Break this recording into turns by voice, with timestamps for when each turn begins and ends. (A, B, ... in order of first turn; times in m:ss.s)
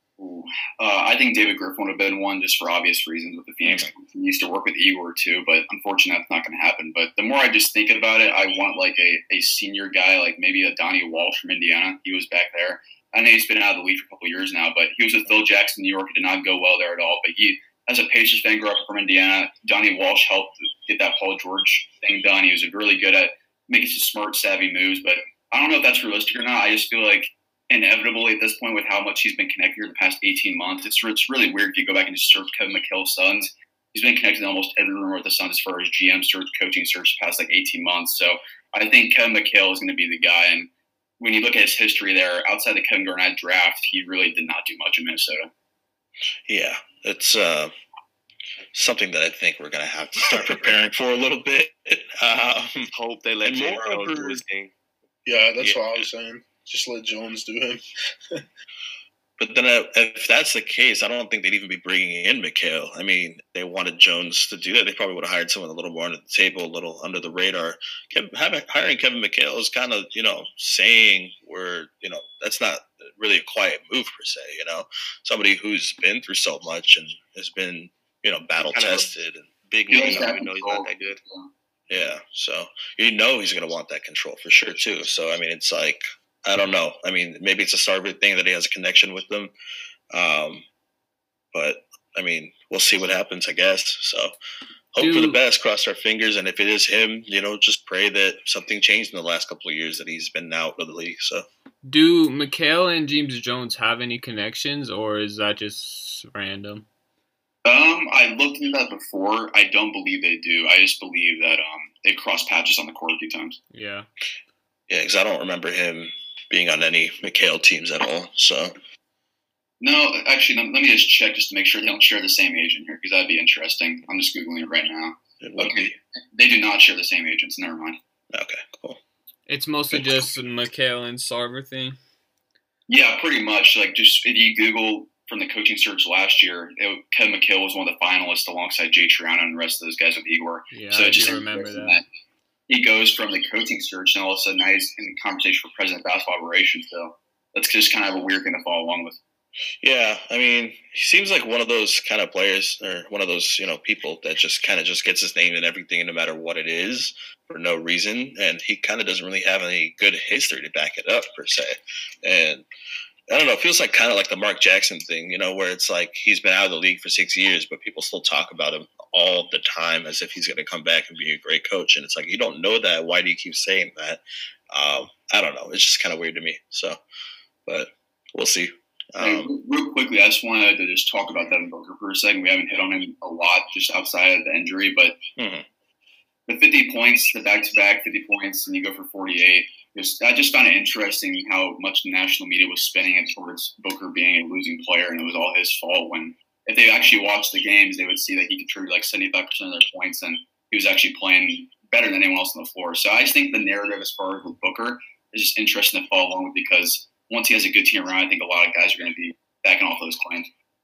0:00.2-0:45.5 A
0:46.5-0:47.7 B
0:48.7-0:52.9 B
0:52.9-0:54.7 C
0:53.4-0:54.4 B
0:55.2-0:58.4 D
0:55.6-0:56.0 B
0:59.4-1:20.3 B
1:18.6-1:19.1 C
1:19.7-1:21.2 C
1:19.9-1:21.5 A
1:21.9-1:29.5 B
1:30.1-1:30.6 B
1:31.5-1:34.3 B
1:34.9-1:41.4 B
1:35.0-1:35.4 E
1:41.8-1:46.8 E
1:47.6-1:53.6 A
1:53.7-1:54.1 E
1:54.9-1:58.7 B
1:59.8-2:08.0 A
2:05.4-2:06.0 B
2:08.3-2:09.0 B
2:09.5-2:12.0 E
2:12.9-2:22.0 A
2:20.7-2:22.0 E
2:22.7-2:29.2 A
2:29.8-2:42.6 B
2:43.3-2:57.0 B
2:57.6-2:59.5 B
2:59.2-3:05.2 A
3:05.4-3:05.7 B
3:06.5-3:30.5 A